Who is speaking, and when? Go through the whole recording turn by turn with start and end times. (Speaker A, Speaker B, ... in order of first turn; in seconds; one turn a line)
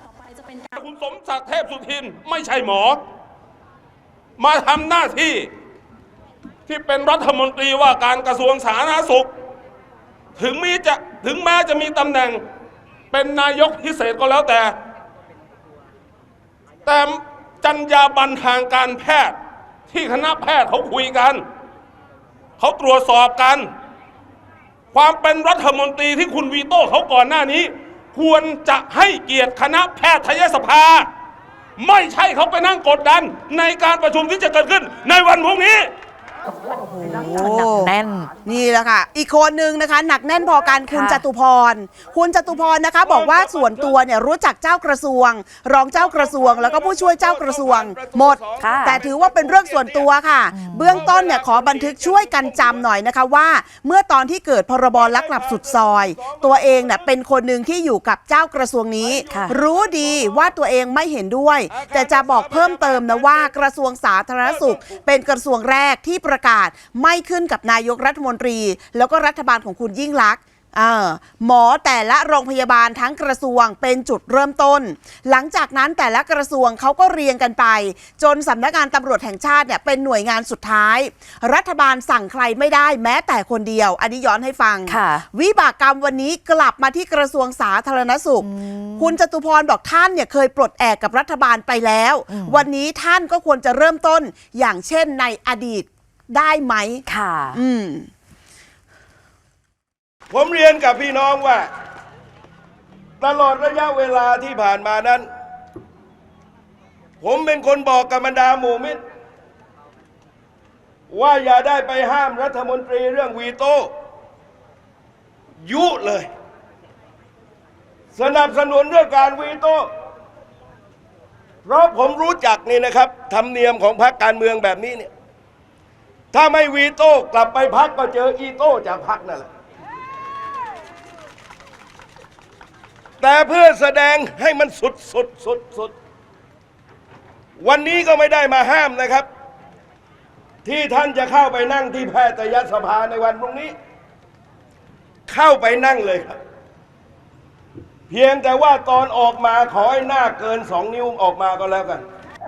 Speaker A: 0.7-3.0
Speaker A: 4.4-5.5
Speaker A: 6.7-9.3
Speaker A: 10.4-12.4
Speaker A: 13.1-14.7
Speaker A: 16.9-19.4
Speaker A: 19.9-21.4
Speaker A: 22.6-23.7
Speaker A: 24.9-31.1
Speaker A: 31.8-35.9
Speaker B: 36.7-37.9
Speaker C: 37.2-38.3
Speaker B: 38.4-98.1
Speaker C: 40.9-41.2
Speaker D: 43.0-44.0
Speaker D: 46.0-50.1
Speaker C: 48.6-49.0
Speaker C: 50.5-51.1
Speaker D: 50.9-52.8
Speaker D: 55.0-57.0
Speaker C: 59.3-59.6
Speaker D: 61.7-63.5
Speaker D: 64.5-65.1
Speaker C: 84.9-85.2
Speaker C: 88.4-89.2
Speaker C: 92.3-92.7
Speaker C: 97.1-97.6
Speaker D: 100.3-101.7
Speaker D: 103.2-105.3
Speaker D: 107.2-109.0
Speaker D: 111.1-113.9
Speaker D: 115.6-116.3
Speaker D: 118.2-119.9
Speaker D: 121.7-125.1
Speaker D: 126.3-129.5
Speaker D: 133.2-135.9
Speaker D: 137.6-139.3
Speaker D: 140.7-143.8
Speaker D: 145.3-146.4
Speaker D: 148.1-152.0